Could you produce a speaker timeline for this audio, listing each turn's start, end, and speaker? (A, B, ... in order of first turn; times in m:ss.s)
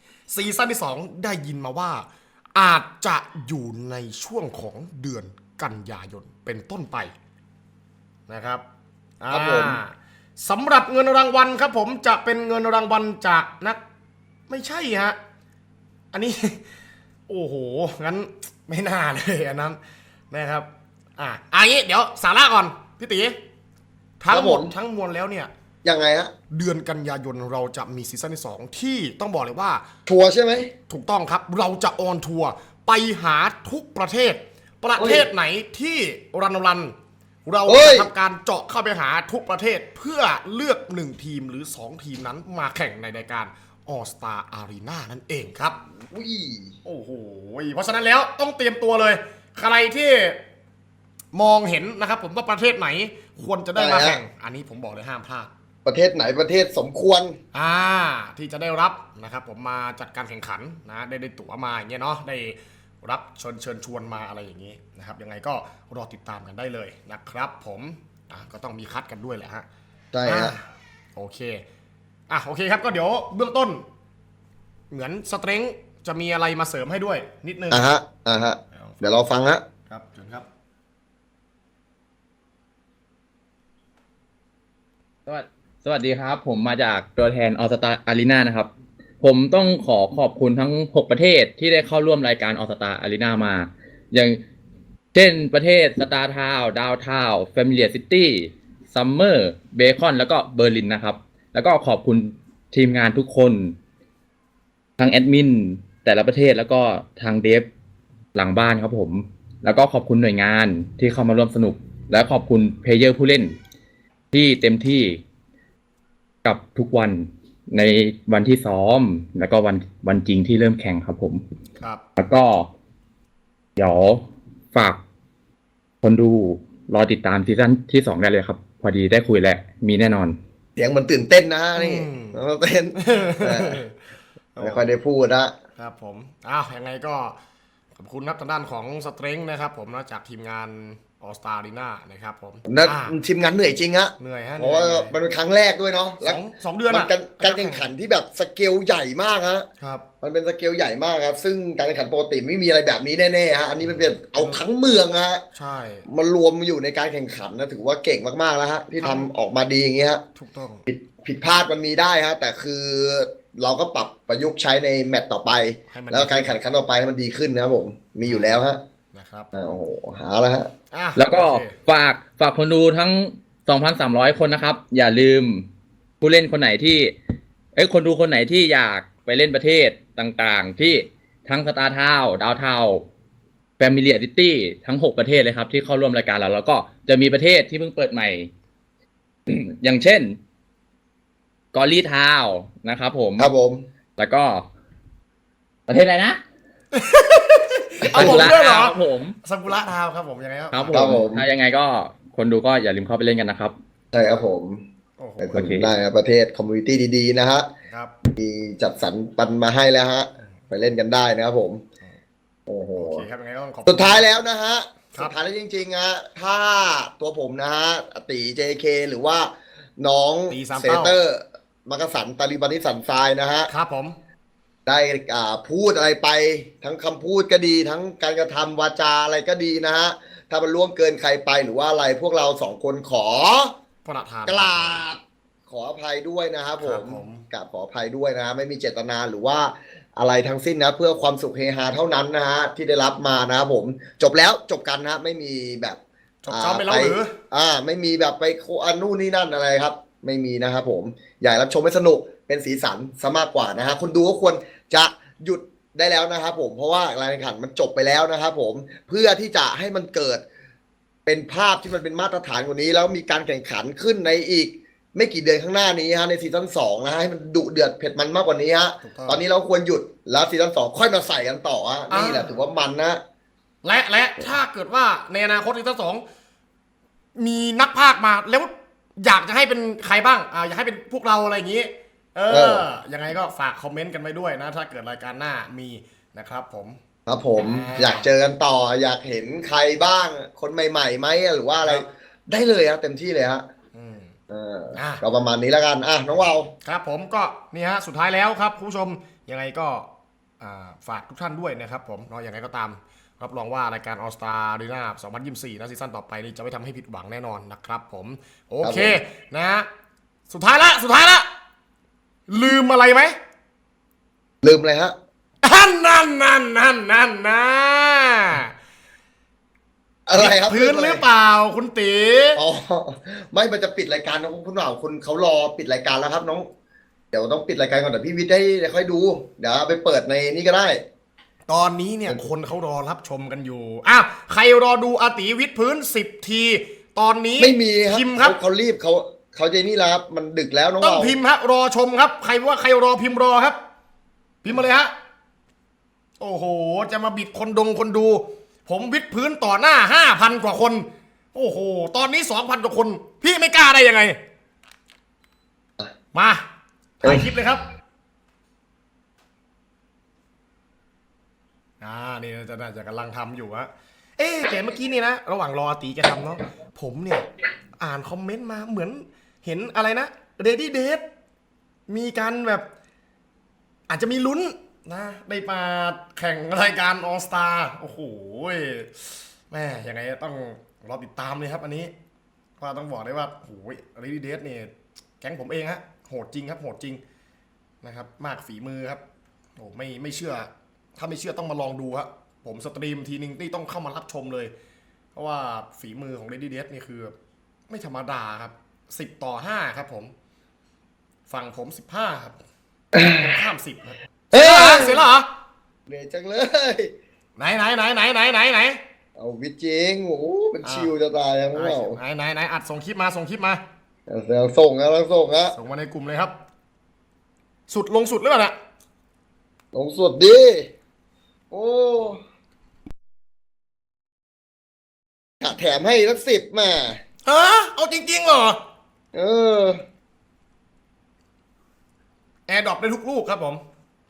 0:00.3-0:07.1 A
0:08.3-0:08.6 A
0:09.2-0:13.8 A
0:09.3-0:09.8 B
0:14.5-0:15.2 A
0:16.1-0:16.6 A
0:17.3-0:19.8 A
0:20.3-0:23.4 A
0:24.2-0:25.5 A
0:24.3-0:24.7 B
0:25.8-0:26.3 B
0:26.5-0:29.8 A
0:30.1-0:30.7 B
0:30.9-0:36.9 A
0:35.0-0:35.3 B
0:37.4-0:45.8 A
0:37.7-0:38.1 B
0:46.1-0:46.8 B
0:46.8-0:50.4 A
0:51.3-0:55.5 A
0:53.8-0:54.2 B
0:55.8-0:57.4 B
0:57.5-1:09.7 A
1:10.1-1:10.6 B
1:10.3-1:11.6 A
1:12.3-1:13.8 A
1:14.9-1:17.8 A
1:17.7-1:19.6 B
1:18.8-1:19.2 A
1:19.9-1:20.5 A
1:25.3-1:28.7 C
1:29.2-1:34.4 C
1:35.1-1:43.8 C
1:45.0-1:47.7 C
1:48.4-1:53.6 C
1:54.3-1:55.2 C
1:56.4-2:01.4 C
2:02.2-2:02.7 C
2:03.8-2:04.2 C
2:04.7-2:05.0 C
2:06.0-2:10.4 C
2:10.8-2:13.8 B
2:11.8-2:12.4 A
2:13.0-2:14.0 A
2:14.6-2:15.0 A
2:14.6-2:15.5 B
2:15.8-2:17.4 A
2:18.0-2:23.2 A
2:22.7-2:29.7 B
2:24.2-2:25.2 A
2:26.2-2:27.9 A
2:29.8-2:30.0 A
2:30.2-2:35.4 B
2:33.8-2:34.6 A
2:35.5-2:36.0 A
2:36.1-2:40.2 B
2:39.0-2:39.3 A
2:40.4-2:40.8 A
2:40.9-2:48.8 B
2:45.9-2:46.6 A
2:48.2-2:49.5 A
2:49.5-2:50.7 B
2:50.9-2:51.8 A
2:51.2-2:55.7 C
2:56.2-2:57.2 C
2:57.8-3:03.1 C
3:03.8-3:08.5 C
3:09.5-3:10.4 C
3:11.7-3:13.5 C
3:13.4-3:13.9 B
3:14.2-3:14.7 C
3:15.9-3:16.4 C
3:16.9-3:21.1 A
3:18.1-3:18.5 B
3:18.2-3:19.4 C
3:20.7-3:23.8 C
3:20.9-3:21.5 B
3:24.1-3:24.8 B
3:25.2-3:25.6 A
3:25.4-3:27.7 B
3:25.5-3:25.9 C
3:28.3-3:31.8 B
3:32.7-3:33.3 B
3:33.0-3:34.3 A
3:33.9-3:43.7 B
3:40.5-3:41.2 A
3:43.7-3:44.2 A
3:44.9-3:53.7 B
3:54.0-3:55.0 A
3:54.5-4:20.4 B
3:56.8-3:57.4 A
4:06.4-4:07.3 A
4:21.3-4:33.2 B
4:29.0-4:29.4 A
4:32.1-4:32.6 A
4:33.8-4:36.2 A
4:37.4-4:47.0 A
4:42.5-4:42.9 B
4:47.3-4:53.7 B
4:47.6-4:48.3 A
4:53.9-4:54.4 A
4:54.5-4:56.7 B
4:55.0-4:55.2 A
4:56.8-5:00.1 A
5:00.6-5:09.9 A
5:08.8-5:09.2 B
5:10.5-5:11.5 A
5:12.5-5:13.4 A
5:14.6-5:15.2 B
5:15.6-5:18.7 A
5:20.3-5:21.2 B
5:20.3-5:22.6 A
5:22.6-5:26.7 B
5:27.3-5:31.0 B
5:31.7-5:38.6 A
5:37.6-5:41.4 B
5:41.0-5:43.8 A
5:44.6-5:45.1 A
5:46.4-5:54.4 A
5:56.3-5:56.6 A
5:57.2-5:57.8 A
6:02.0-6:07.5 A
6:08.0-6:11.2 A
6:12.1-6:12.8 A
6:14.1-6:22.1 A
6:22.8-6:27.2 A
6:28.0-6:29.2 A
6:29.8-6:34.7 A
6:35.4-6:37.3 A
6:37.9-6:40.3 A
6:41.5-6:42.6 A
6:43.1-6:43.5 B
6:43.3-6:45.5 A
6:44.5-6:45.2 B
6:46.1-6:47.1 B
6:47.6-6:49.0 A
6:49.4-6:52.2 B
6:50.8-6:51.1 A
6:51.7-6:53.8 A
6:54.3-6:55.8 B
6:55.7-6:56.6 A
6:57.9-6:58.8 A
6:59.9-7:00.9 B
7:01.7-7:02.4 B
7:05.6-7:07.2 B
7:07.5-7:08.8 A
7:09.3-7:10.0 B
7:12.7-7:13.8 A